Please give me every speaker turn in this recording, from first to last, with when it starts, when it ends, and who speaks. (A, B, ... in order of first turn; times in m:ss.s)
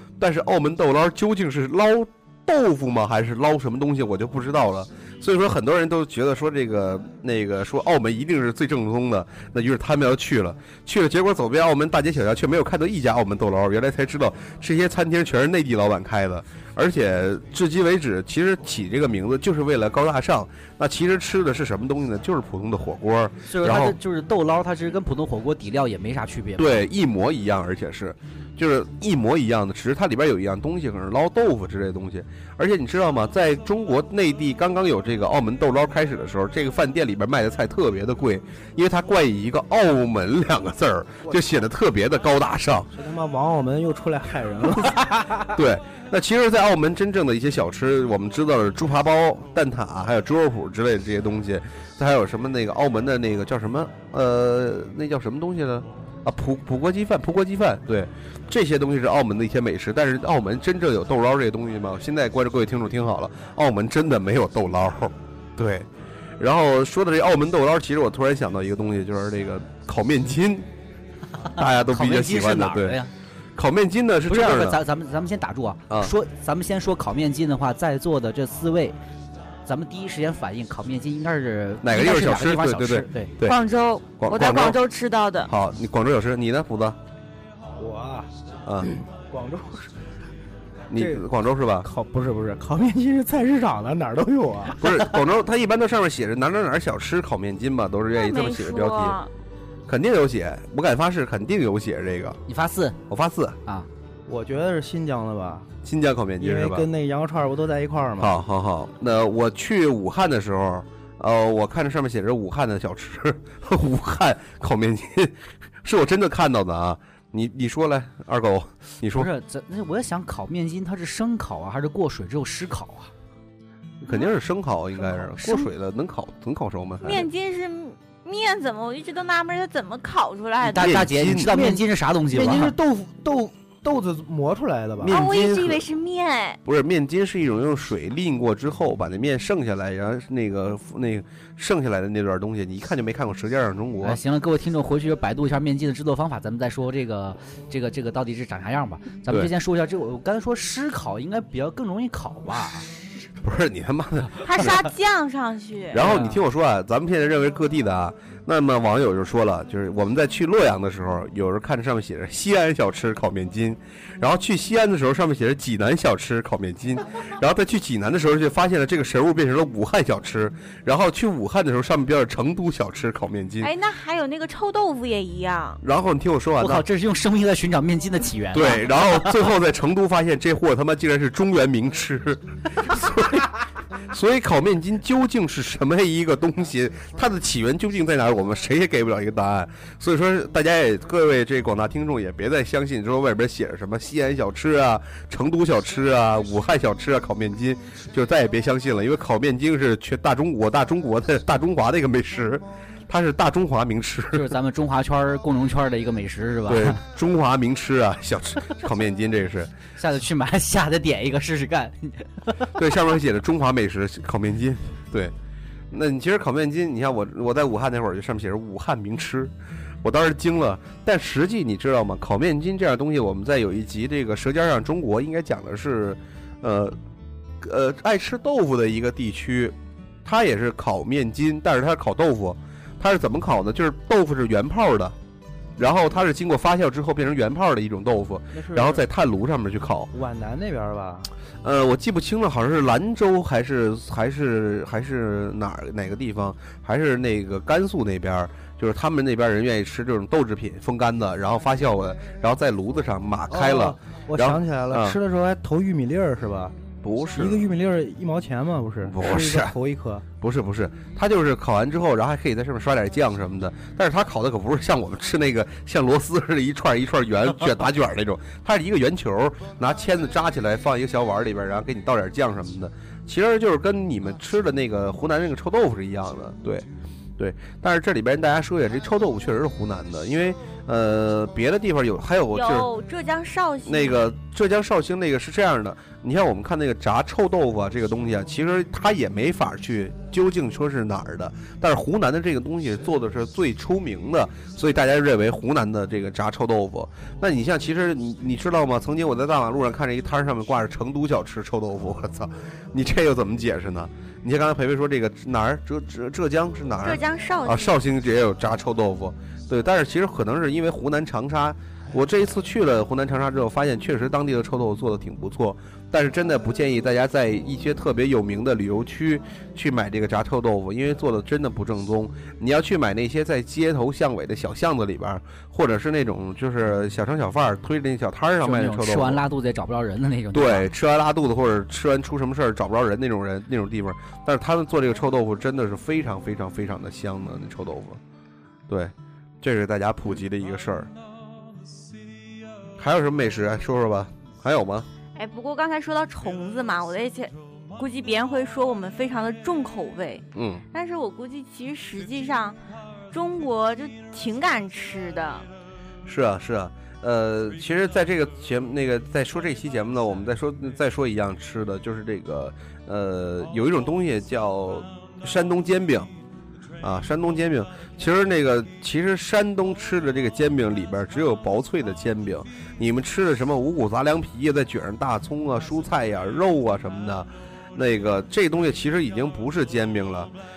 0:00.2-0:24.0 A
0:23.5-0:26.8 B
0:26.6-0:42.9 A
0:42.9-0:45.5 C
0:45.5-1:05.9 A
1:06.4-1:10.7 A
1:11.4-1:13.1 B
1:11.5-1:13.0 A
1:13.6-1:14.8 A
1:14.3-1:19.0 B
1:15.9-1:16.1 A
1:19.6-1:23.3 B
1:21.8-1:23.6 A
1:23.4-1:25.5 D
1:24.2-1:24.8 A
1:25.5-1:27.0 A
1:27.8-1:28.3 C
1:28.6-1:28.9 A
1:28.8-1:29.9 C
1:30.9-1:31.9 A
1:31.0-1:31.2 C
1:31.8-1:34.8 C
1:34.8-1:39.2 A
1:38.1-1:39.3 D
1:39.9-1:42.4 A
1:42.5-1:43.0 B
1:43.1-1:43.6 A
1:44.3-1:45.7 C
1:45.8-1:46.9 A
1:46.4-1:48.4 C
1:48.2-1:59.3 A
1:59.1-2:03.1 B
2:04.0-2:07.3 A
2:05.3-2:05.6 B
2:07.0-2:11.0 D
2:10.6-2:12.7 B
2:10.8-2:11.6 A
2:11.4-2:15.1 C
2:15.0-2:15.8 A
2:15.1-2:16.6 D
2:16.6-2:24.2 A
2:24.0-2:32.9 B
2:33.4-2:34.8 A
2:34.4-2:36.0 D
2:35.9-2:53.7 A
2:36.0-2:36.4 B
2:53.6-2:55.8 D
2:55.8-2:56.8 A
2:56.6-2:59.4 B
2:58.5-3:03.5 A
3:04.1-3:24.5 A
3:24.3-3:27.0 B
3:26.7-3:29.7 A
3:30.0-3:32.7 B
3:32.7-3:35.3 A
3:35.9-3:47.0 A
3:47.6-3:55.2 A
3:55.8-4:00.1 A
3:58.5-3:59.0 C
4:00.1-4:01.3 C
4:01.6-4:15.2 A
4:13.5-4:16.7 C
4:17.0-4:17.6 A
4:17.4-4:20.2 C
4:19.0-4:19.8 A
4:20.4-4:36.9 A
4:37.4-4:42.9 A
4:42.5-4:44.2 D
4:43.8-5:29.4 A
5:07.0-5:08.0 D
5:28.6-5:30.9 B
5:30.5-5:38.2 A
5:38.9-5:41.1 A
5:43.0-5:45.1 A
5:45.4-5:52.8 D
5:50.5-5:50.8 A
5:53.3-5:55.6 D
5:56.2-6:06.3 A
6:07.0-6:20.5 A